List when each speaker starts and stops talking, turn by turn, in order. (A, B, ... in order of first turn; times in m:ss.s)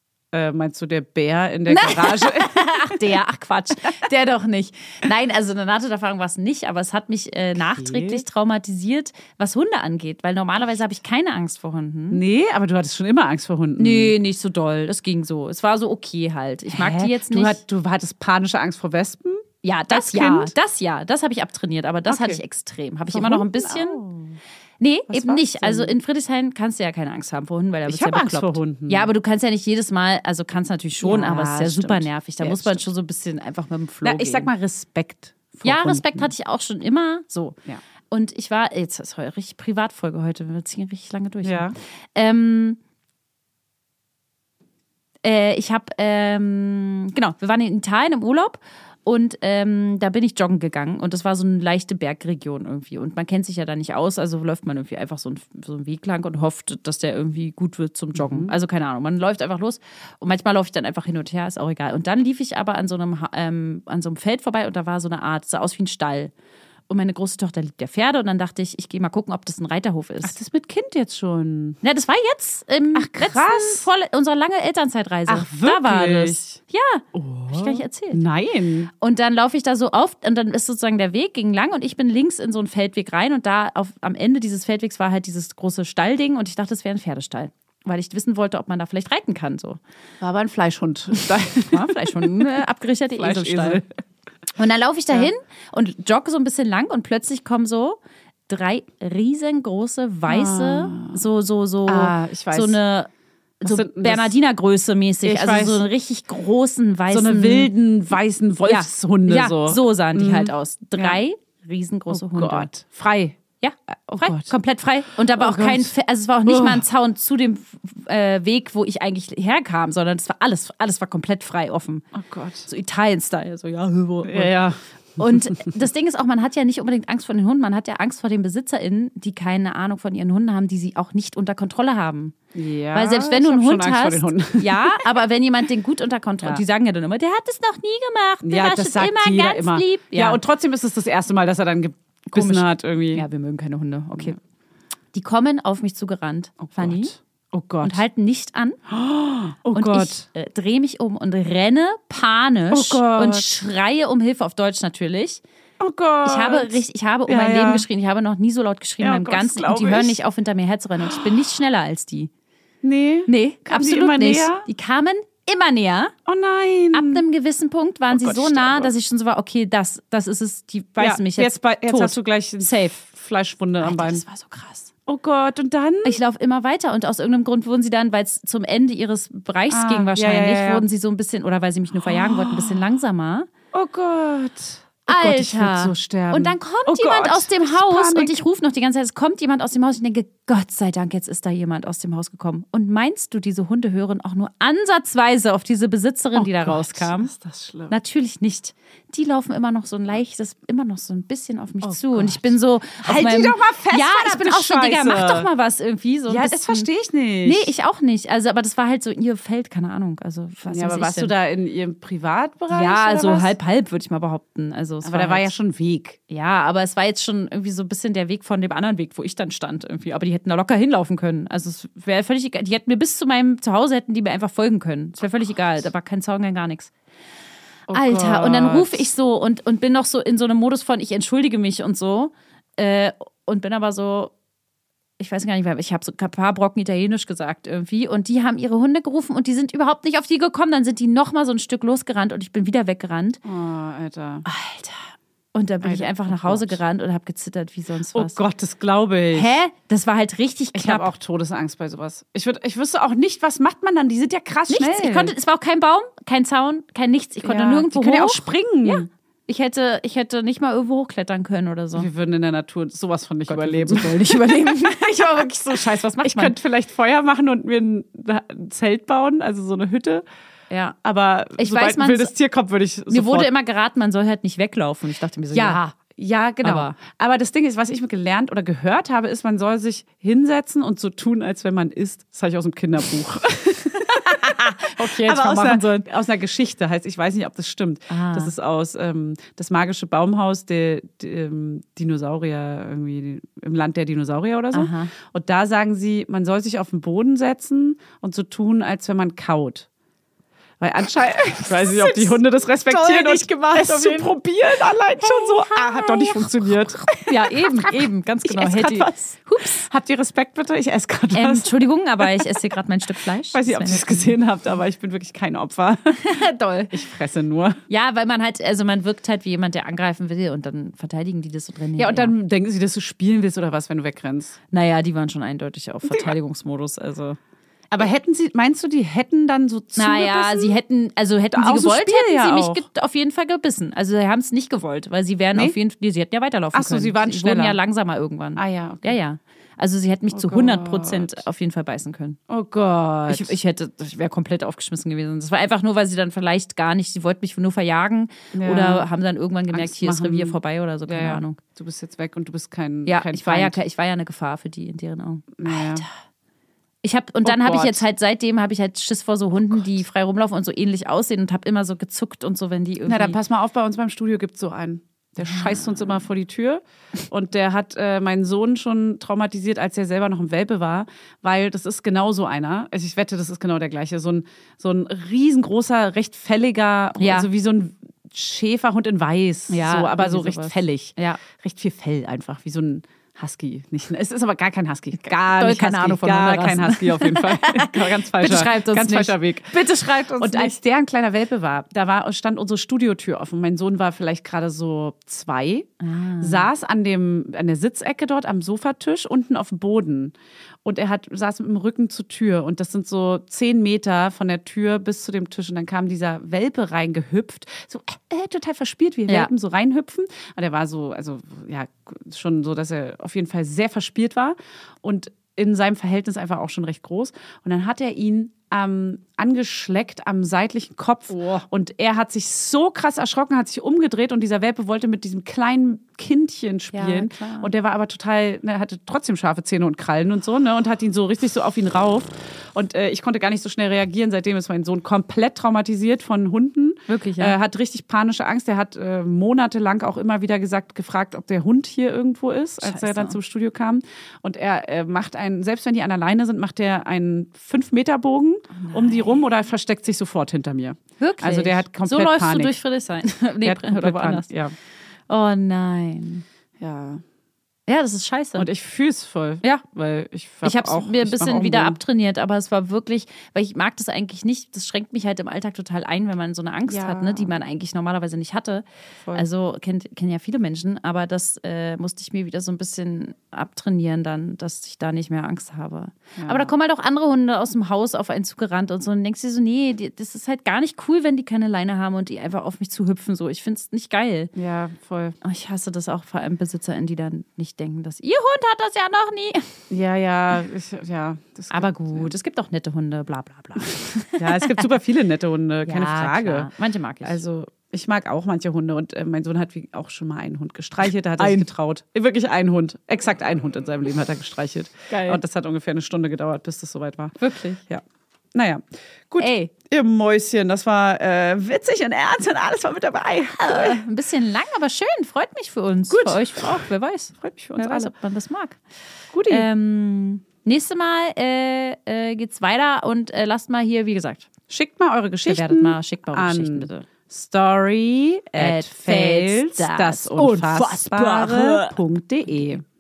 0:00.3-0:03.2 A
0:01.7-0:12.2 B
0:07.6-0:08.2 A
0:12.1-0:14.2 A
0:13.8-0:17.6 B
0:16.7-0:20.5 A
0:19.6-0:24.0 B
0:22.1-0:22.4 A
0:23.1-0:24.4 A
0:24.8-0:34.5 B
0:25.1-0:26.0 A
0:27.9-0:29.1 A
0:31.0-0:32.8 A
0:34.0-0:36.3 A
0:35.6-0:37.6 B
0:38.1-0:42.8 B
0:41.4-0:41.8 A
0:45.2-1:06.3 B
0:58.2-0:58.5 A
1:06.9-1:10.4 B
1:10.2-1:11.8 A
1:11.8-1:18.2 B
1:13.0-1:13.9 A
1:15.3-1:16.6 A
1:17.1-1:18.9 A
1:19.0-1:29.8 B
1:30.2-1:32.4 A
1:31.2-1:33.8 B
1:33.2-1:33.8 A
1:34.6-1:47.7 B
1:40.3-1:41.2 A
1:41.9-1:42.8 A
1:43.6-1:44.3 A
1:45.2-1:45.8 A
1:47.1-1:51.2 A
1:48.6-1:52.7 B
1:52.1-1:53.4 A
1:53.6-2:02.1 B
1:54.1-1:54.5 A
1:55.4-1:55.9 A
1:56.5-1:56.8 A
2:02.1-2:02.7 A
2:02.7-2:04.5 B
2:04.2-2:05.7 A
2:05.2-2:12.4 B
2:12.5-2:15.0 A
2:12.9-2:20.4 B
2:18.4-2:23.2 A
2:22.3-2:24.4 B
2:25.1-2:27.1 B
2:26.6-2:28.0 A
2:27.8-2:28.8 B
2:28.9-2:30.2 A
2:29.8-2:35.4 B
2:32.7-2:33.5 A
2:35.8-2:37.9 A
2:36.2-2:42.3 B
2:39.0-2:40.2 A
2:42.8-2:44.7 A
2:43.3-2:46.1 B
2:46.3-2:47.2 A
2:46.9-2:53.0 B
2:48.1-2:48.9 A
2:51.0-2:54.2 A
2:53.8-2:54.9 B
2:55.1-2:56.2 A
2:56.0-3:03.5 B
2:59.7-3:00.8 A
3:02.0-3:02.8 A
3:03.7-3:08.4 A
3:05.1-3:17.3 B
3:16.4-3:17.9 A
3:17.9-3:26.9 B
3:21.8-3:25.5 A
3:26.3-3:27.7 A
3:27.4-3:31.3 B
3:30.7-3:33.5 A
3:32.7-3:35.5 B
3:35.0-3:36.2 A
3:36.3-3:46.9 B
3:47.9-3:49.1 A
3:47.9-3:54.3 B
3:55.2-4:03.4 B
4:03.4-4:04.5 A
4:04.4-4:08.4 B
4:05.8-4:06.8 A
4:08.1-4:09.6 A
4:09.3-4:11.1 B
4:10.8-4:15.3 A
4:14.7-4:22.1 B
4:17.4-4:19.1 A
4:22.0-4:25.0 A
4:23.5-4:26.6 B
4:26.2-4:30.2 A
4:30.7-4:31.0 B
4:31.0-4:33.5 A
4:31.6-4:32.3 B
4:33.1-4:35.9 B
4:35.5-4:59.9 A
4:36.6-4:37.0 B
4:44.0-4:46.1 B
4:48.1-4:48.5 B
4:54.7-4:55.1 B
5:00.8-5:12.6 A
5:01.7-5:04.4 B
5:05.2-5:09.8 B
5:11.3-5:14.4 B
5:13.5-5:17.8 A
5:16.1-5:17.0 B
5:17.9-5:22.3 B
5:22.0-5:24.6 A
5:24.7-5:27.4 B
5:26.1-5:26.3 A
5:27.9-5:30.8 A
5:30.0-5:42.4 B
5:31.6-5:32.9 A
5:36.7-5:37.8 A
5:38.6-5:39.2 A
5:40.3-5:41.4 A
5:42.5-5:43.6 A
5:43.3-5:51.6 B
5:48.5-5:49.1 A
5:49.7-5:53.8 A
5:53.1-5:56.1 B
5:55.6-5:56.0 A
5:57.0-6:03.4 B
5:57.4-5:58.0 A
6:03.1-6:35.9 A
6:05.4-6:06.2 B
6:17.2-6:17.5 B
6:19.7-6:21.4 B
6:25.2-6:30.8 B
6:36.0-6:36.7 B
6:36.4-7:32.8 A
7:01.3-7:01.6 B
7:06.9-7:07.7 B
7:17.1-7:17.6 B
7:22.8-7:23.4 B
7:28.7-7:29.4 B
7:31.2-7:34.5 B
7:33.6-7:34.7 A
7:35.3-7:36.4 B
7:36.8-7:37.2 A
7:37.9-7:38.7 B
7:38.6-7:42.0 A
7:40.6-8:04.5 B
7:46.9-7:47.5 A
7:56.4-7:56.7 A
8:04.6-8:05.4 A
8:05.4-8:09.8 B
8:09.9-8:12.3 A
8:11.7-8:14.9 B
8:14.4-8:16.7 A
8:15.9-8:17.4 B
8:17.2-8:34.0 A
8:21.4-8:21.7 B
8:25.1-8:25.4 B
8:27.4-8:27.8 B
8:29.4-8:29.7 B
8:33.6-8:38.8 B
8:36.1-8:36.8 A
8:37.4-8:38.1 A
8:39.3-8:39.7 A
8:39.5-8:44.5 B
8:44.7-8:52.8 A
8:45.5-8:47.1 B
8:48.6-8:52.0 B